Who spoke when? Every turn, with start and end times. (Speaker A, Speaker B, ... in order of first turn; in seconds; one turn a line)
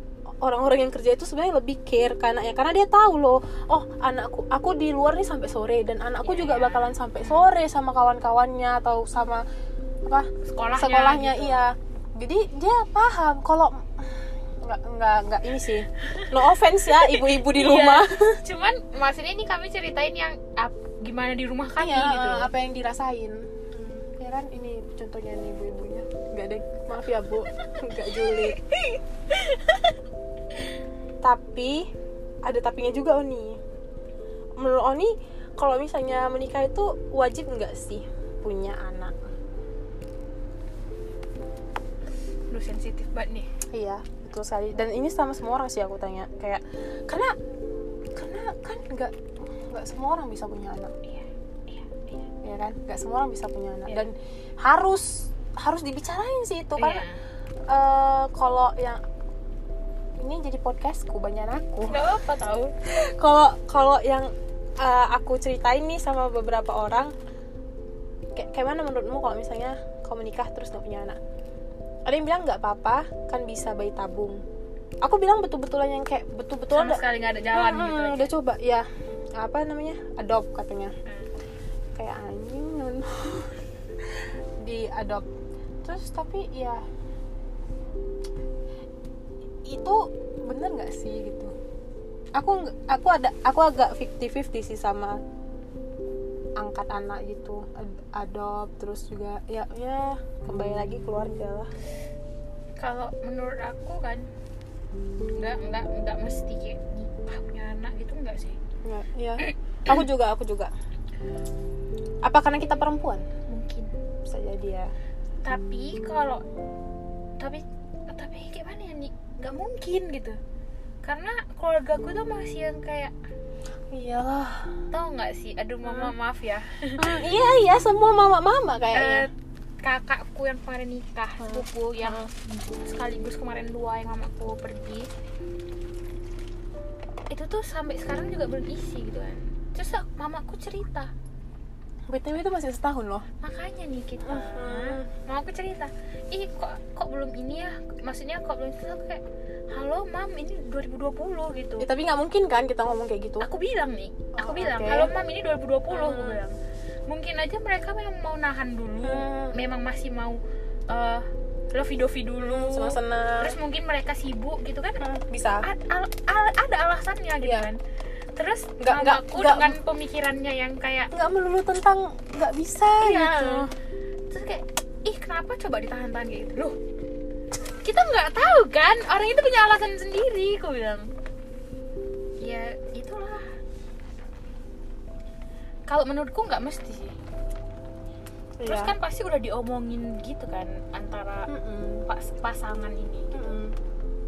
Speaker A: 0.4-9.4
Speaker B: 6.2-7.5
Speaker A: 10.1-18.4
Speaker B: 10.4-11.6
Speaker B: 16.0-22.5
Speaker A: 21.8-28.6
Speaker B: 27.6-29.9
Speaker A: 31.2-31.9
Speaker A: 32.4-33.6
Speaker A: 34.6-39.2
Speaker B: 42.5-43.5
Speaker A: 43.7-47.3
Speaker A: 48.1-49.1
Speaker A: 49.7-50.9
Speaker B: 51.0-52.3
Speaker A: 52.4-57.0
Speaker B: 56.8-57.2
Speaker A: 57.7-59.0
Speaker A: 60.2-62.0
Speaker B: 61.9-62.7
Speaker A: 62.9-67.1
Speaker A: 68.3-71.2
Speaker A: 72.1-74.4
Speaker A: 75.0-80.9
Speaker B: 76.7-78.3
Speaker A: 82.0-85.3
Speaker A: 85.8-86.8
Speaker A: 89.7-91.5
Speaker A: 92.3-95.2
Speaker A: 96.6-101.7
Speaker B: 102.8-104.3
Speaker B: 105.4-108.6
Speaker A: 108.8-110.7
Speaker A: 112.2-113.2
Speaker B: 113.5-113.9
Speaker A: 114.3-114.9
Speaker B: 115.4-116.4
Speaker B: 117.4-120.4
Speaker B: 121.0-123.1
Speaker A: 123.9-124.7
Speaker B: 124.9-127.2
Speaker A: 125.8-126.1
Speaker A: 127.0-129.3
Speaker B: 128.9-129.3
Speaker B: 129.8-135.1
Speaker A: 131.4-132.3
Speaker B: 137.3-141.1
Speaker A: 142.1-143.3
Speaker B: 143.4-151.9
Speaker A: 144.2-145.1
Speaker A: 151.8-153.5
Speaker B: 153.4-156.6
Speaker A: 154.4-155.1
Speaker A: 155.9-156.4
Speaker B: 157.1-165.0
Speaker A: 159.0-159.6
Speaker A: 162.4-163.6
Speaker A: 165.0-165.7
Speaker B: 165.6-167.8
Speaker A: 167.4-167.7
Speaker B: 168.4-171.1
Speaker A: 168.8-169.8
Speaker A: 171.1-173.7
Speaker B: 173.0-173.7
Speaker B: 174.3-176.8
Speaker B: 177.8-181.1
Speaker B: 182.4-183.5
Speaker B: 185.9-187.2
Speaker A: 188.6-188.9
Speaker B: 188.6-191.5
Speaker A: 191.5-192.0
Speaker B: 192.1-193.6
Speaker A: 193.3-193.7